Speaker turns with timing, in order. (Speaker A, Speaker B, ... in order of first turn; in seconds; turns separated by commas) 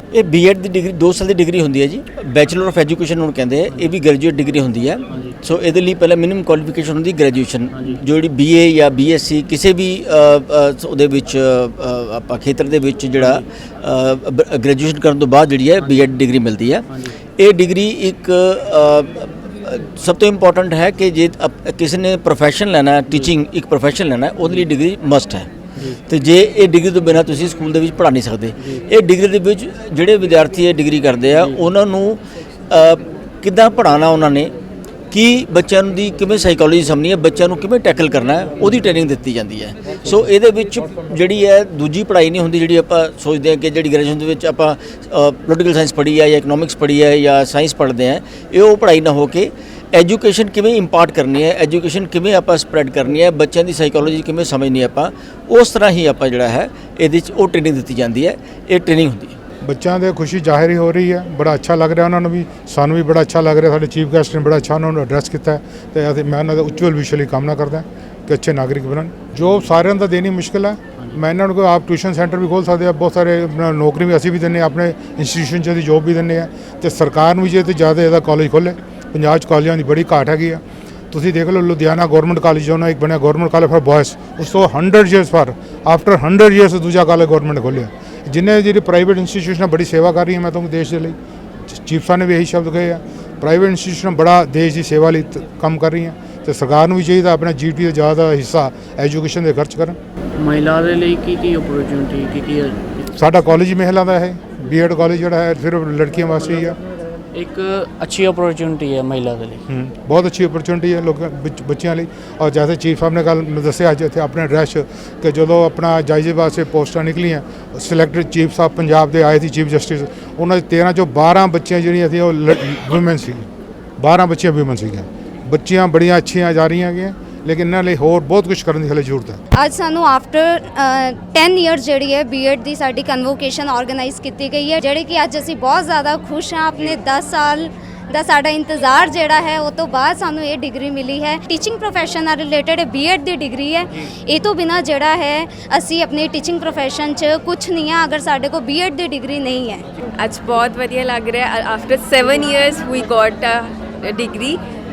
Speaker A: 0.1-16.9, Speaker B: 5.1-5.4, Speaker B: 7.7-8.0, Speaker B: 13.2-13.4, Speaker B: 15.8-16.1, Speaker B: 16.9-17.1, Speaker A: 17.4-25.5, Speaker A: 26.1-34.5, Speaker B: 31.3-31.6, Speaker A: 35.1-59.3, Speaker C: 59.6-91.2, Speaker C: 91.7-100.0, Speaker B: 100.4-103.1, Speaker C: 103.1-106.8, Speaker B: 107.3-109.6, Speaker C: 109.7-123.5, Speaker C: 124.0-129.4, Speaker D: 129.6-149.8, Speaker E: 150.1-154.6